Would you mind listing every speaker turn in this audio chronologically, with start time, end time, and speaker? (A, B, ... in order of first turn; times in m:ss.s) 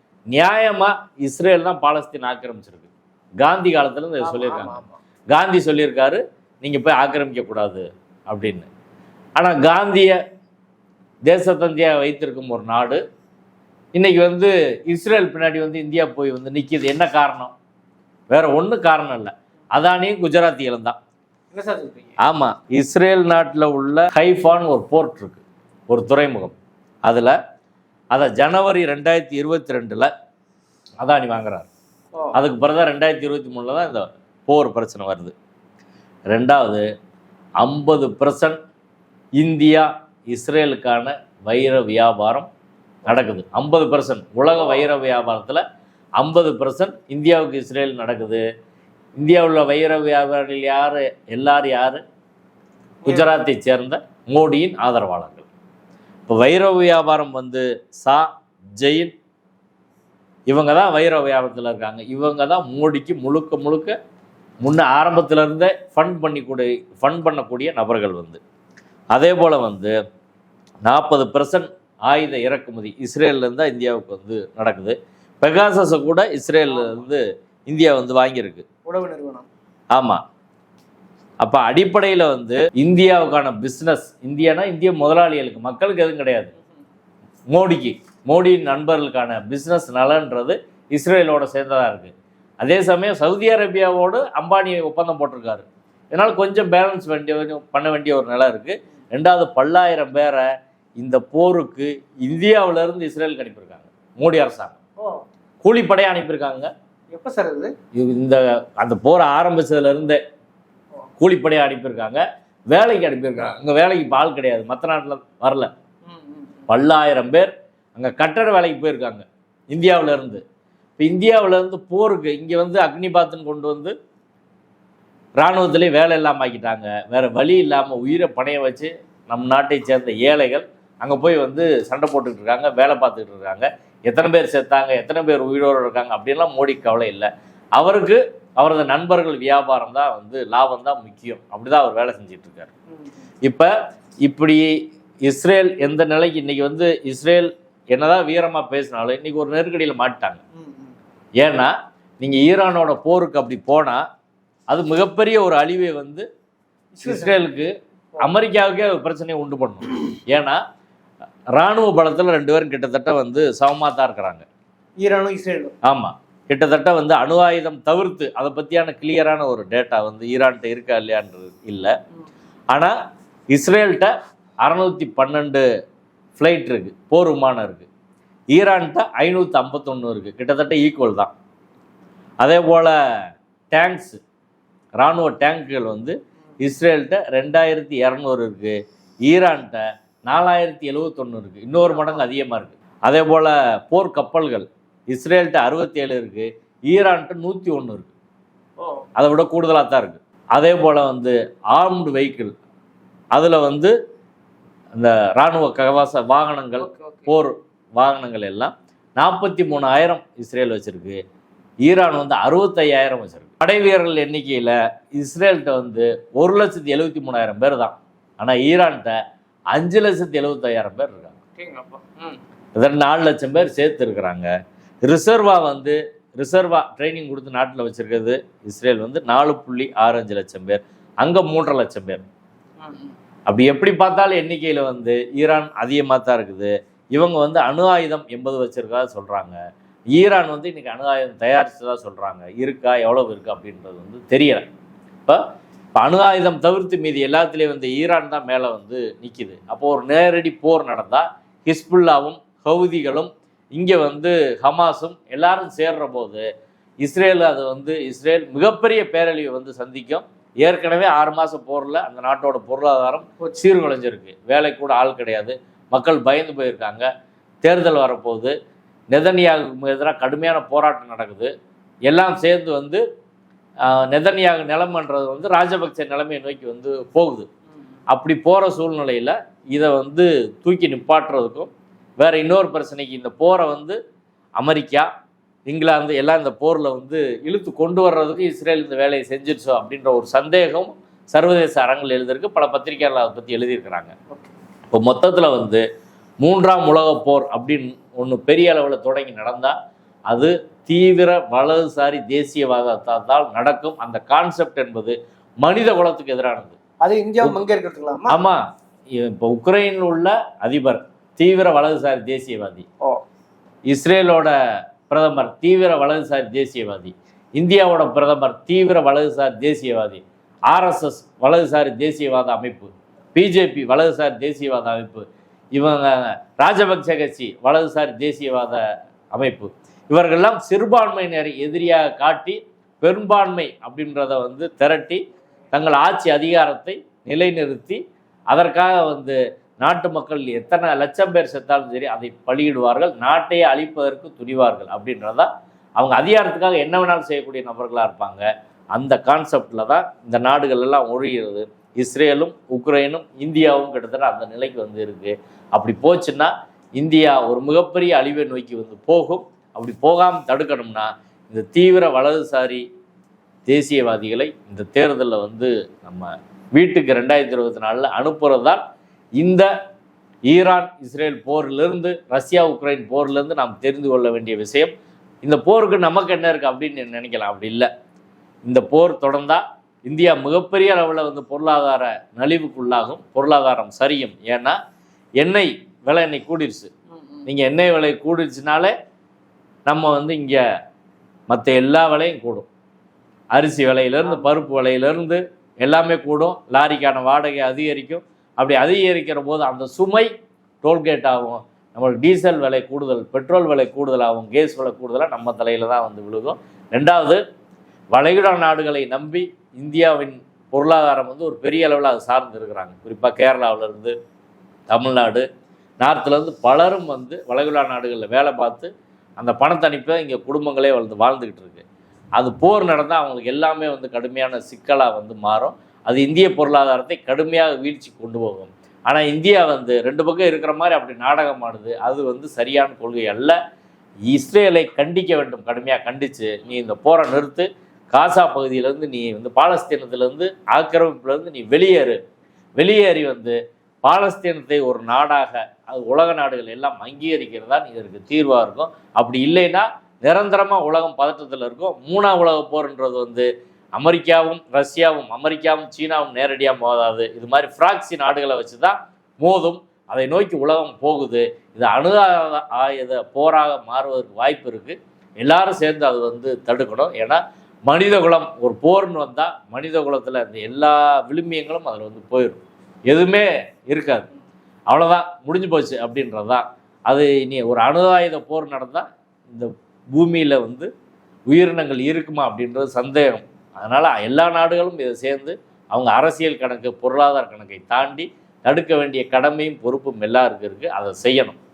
0:00.3-0:02.9 A
0:03.4-0:04.8 A
0:04.2-0:05.0 B
0:05.3-0:08.7 A
0:09.4-0:10.2 A
0:11.3-0:13.0 A
0:14.0-0:17.5 A
0:18.3-0:21.0 A
0:21.5-0:22.2 B
0:22.2-0:27.4 A
0:28.1-0:30.1 A
0:31.0-0:31.7 A
0:32.3-0:35.3 A
0:36.3-0:36.8 A
0:37.6-0:38.6 A
0:39.4-0:42.5 A
0:43.0-0:45.6 A
0:44.5-0:44.8 B
0:46.2-0:48.4 A
0:49.2-0:52.0 A
0:53.0-0:53.3 B
0:53.0-0:55.5 A
0:56.3-0:59.1 A
1:00.5-1:04.0 A
1:04.6-1:08.4 A
1:09.1-1:09.9 A
1:10.8-1:18.6 A
1:16.7-1:17.0 B
1:18.8-1:19.5 B
1:19.9-1:20.2 A
1:21.4-1:26.5 A
1:27.5-1:40.4 A
1:41.0-1:44.8 A
1:45.0-1:45.2 B
1:45.6-1:46.7 A
1:47.1-1:47.7 B
1:47.9-1:50.2 A
1:51.2-1:55.7 A
1:56.0-1:56.6 B
1:56.7-2:00.4 A
2:01.0-2:03.9 A
2:05.4-2:22.7 A
2:22.9-2:23.2 B
2:23.4-2:23.7 A
2:24.2-2:24.7 A
2:25.2-2:30.4 A
2:30.5-2:30.9 B
2:31.4-2:34.0 A
2:34.7-2:36.3 A
2:36.9-2:37.4 B
2:37.0-2:40.6 A
2:41.6-2:44.5 A
2:45.0-2:45.8 B
2:45.8-2:51.9 A
2:53.5-2:54.1 A
2:54.6-2:55.6 A
2:56.4-2:57.9 A
2:58.5-3:01.3 A
3:02.4-3:03.0 A
3:03.7-3:04.2 A
3:05.0-3:18.1 A
3:11.9-3:12.2 B
3:18.8-3:19.0 B
3:19.2-3:22.5 A
3:23.3-3:23.9 A
3:24.9-3:31.2 A
3:26.8-3:27.3 B
3:31.9-3:39.2 A
3:39.7-3:41.3 A
3:41.6-3:42.4 B
3:42.8-3:44.5 A
3:45.0-3:52.2 A
3:52.8-3:53.1 B
3:53.5-3:59.6 A
4:00.1-4:04.7 A
4:06.0-4:16.4 A
4:17.0-4:27.1 A
4:27.6-4:28.5 A
4:29.1-4:31.5 A
4:32.1-4:33.0 A
4:33.8-4:37.5 A
4:38.1-4:44.0 A
4:44.6-4:45.1 A
4:45.7-4:54.1 A
4:54.9-4:55.8 A
4:56.4-4:59.8 A
5:00.3-5:06.8 A
5:07.0-5:08.4 B
5:08.3-5:12.8 A
5:13.9-5:14.5 A
5:15.1-6:02.8 A
6:03.7-6:08.8 A
6:09.4-6:09.7 A
6:10.5-6:17.9 A
6:18.6-6:24.8 A
6:25.4-6:26.9 A
6:27.1-6:27.4 B
6:27.4-6:28.9 A
6:29.9-6:30.6 A
6:31.5-6:32.7 A
6:33.5-6:40.3 A
6:34.2-6:34.5 B
6:40.8-6:47.4 A
6:48.1-6:54.1 A
6:54.9-6:55.4 A
6:56.0-7:01.8 A
7:02.4-7:13.6 A
7:14.3-7:22.2 A
7:22.8-7:54.3 A
7:54.9-8:00.9 A
8:01.5-8:11.6 A